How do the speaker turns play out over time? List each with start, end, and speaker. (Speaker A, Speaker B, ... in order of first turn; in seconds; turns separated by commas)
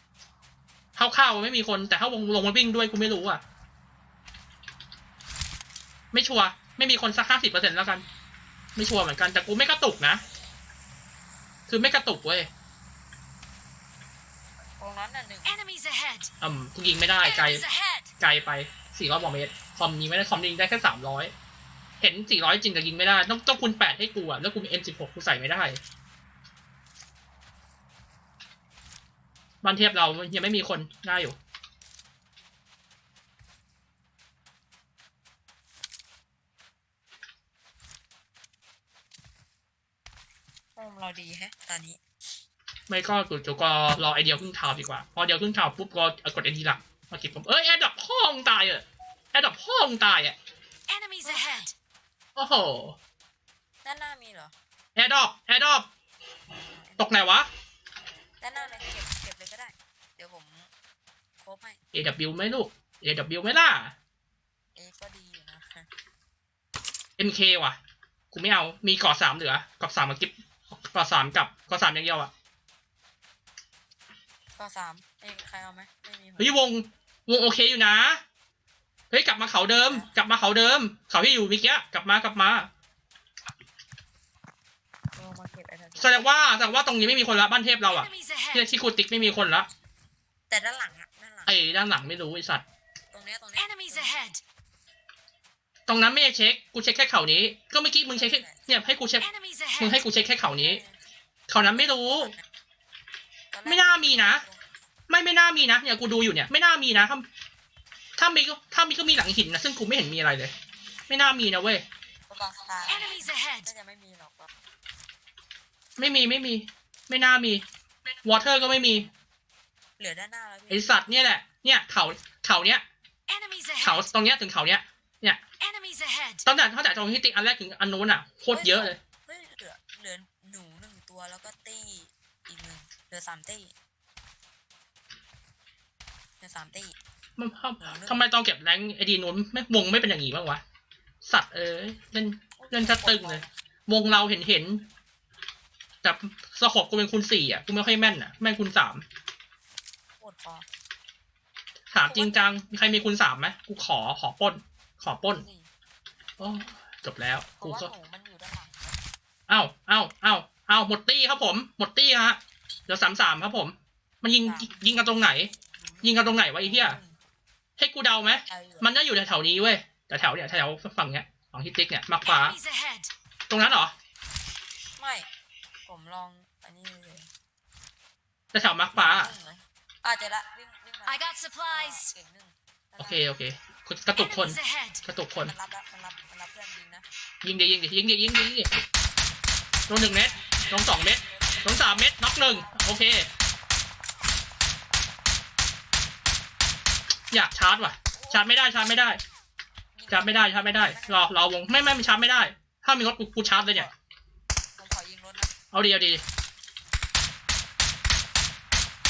Speaker A: 0.9-3.4, Speaker A: 6.1-8.0, Speaker A: 8.8-10.2, Speaker A: 11.7-12.5, Speaker B: 14.8-15.6, Speaker C: 15.4-16.3, Speaker A: 16.4-17.6, Speaker C: 17.3-18.1, Speaker A: 18.2-21.3, Speaker A: 22.0-25.8, Speaker A: 29.6-31.4, Speaker B: 40.8-42.0, Speaker A: 42.9-50.4, Speaker C: 50.9-51.7, Speaker A: 52.4-53.0, Speaker B: 53.8-54.5, Speaker A: 55.0-55.9, Speaker B: 56.6-57.1, Speaker A: 57.0-57.5, Speaker B: 58.4-60.7, Speaker B: 61.4-61.8, Speaker A: 61.9-63.9, Speaker B: 64.7-65.9, Speaker A: 67.2-67.8, Speaker A: 68.3-72.3, Speaker B: 74.5-76.6, Speaker A: 76.4-78.2, Speaker A: 79.1-82.7, Speaker B: 79.8-80.1, Speaker B: 85.1-86.3, Speaker A: 86.0-89.7, Speaker C: 87.9-88.5, Speaker B: 90.5-91.6, Speaker A: 91.5-92.6, Speaker B: 93.1-94.4, Speaker C: 93.7-94.3, Speaker A: 95.9-100.8, Speaker B: 98.1-98.6, Speaker B: 100.4-101.0, Speaker A: 101.5-102.3, Speaker B: 101.7-102.4, Speaker B: 103.5-104.6, Speaker A: 103.7-104.4, Speaker A: 105.1-107.2, Speaker A: 108.2-110.5, Speaker A: 111.1-111.8, Speaker B: 112.3-114.5, Speaker C: 113.1-113.6, Speaker A: 116.0-117.6, Speaker A: 118.2-119.1, Speaker B: 120.0-121.3, Speaker A: 120.7-122.8, Speaker C: 123.3-123.8, Speaker A: 123.8-125.4, Speaker C: 125.6-126.4, Speaker A: 126.4-129.0, Speaker B: 128.5-133.7, Speaker B: 136.4-136.9, Speaker A: 137.4-140.6, Speaker B: 137.8-138.2, Speaker A: 141.2-144.8, Speaker B: 142.6-143.5, Speaker A: 146.0-149.0, Speaker B: 150.2-150.7, Speaker A: 151.9-155.4, Speaker B: 152.1-152.6, Speaker B: 155.3-155.7, Speaker A: 156.4-157.9, Speaker B: 157.6-159.0, Speaker A: 159.5-165.5, Speaker B: 164.4-166.0, Speaker A: 166.0-167.0, Speaker B: 166.6-167.2, Speaker A: 167.8-172.6, Speaker B: 168.3-168.9, Speaker C: 172.3-173.1, Speaker A: 173.5-173.9, Speaker B: 175.0-175.3, Speaker B: 175.8-177.3, Speaker A: 178.5-179.3, Speaker B: 178.9-183.2, Speaker C: 181.1-182.1, Speaker A: 183.0-185.5, Speaker C: 184.4-184.9, Speaker B: 185.3-187.1, Speaker A: 187.4-188.7, Speaker A: 189.9-193.3, Speaker B: 190.4-193.1, Speaker A: 197.3-199.2, Speaker B: 198.1-198.5, Speaker B: 199.9-201.3, Speaker A: 200.1-203.9, Speaker B: 203.5-203.9, Speaker B: 204.8-205.6, Speaker A: 205.7-206.2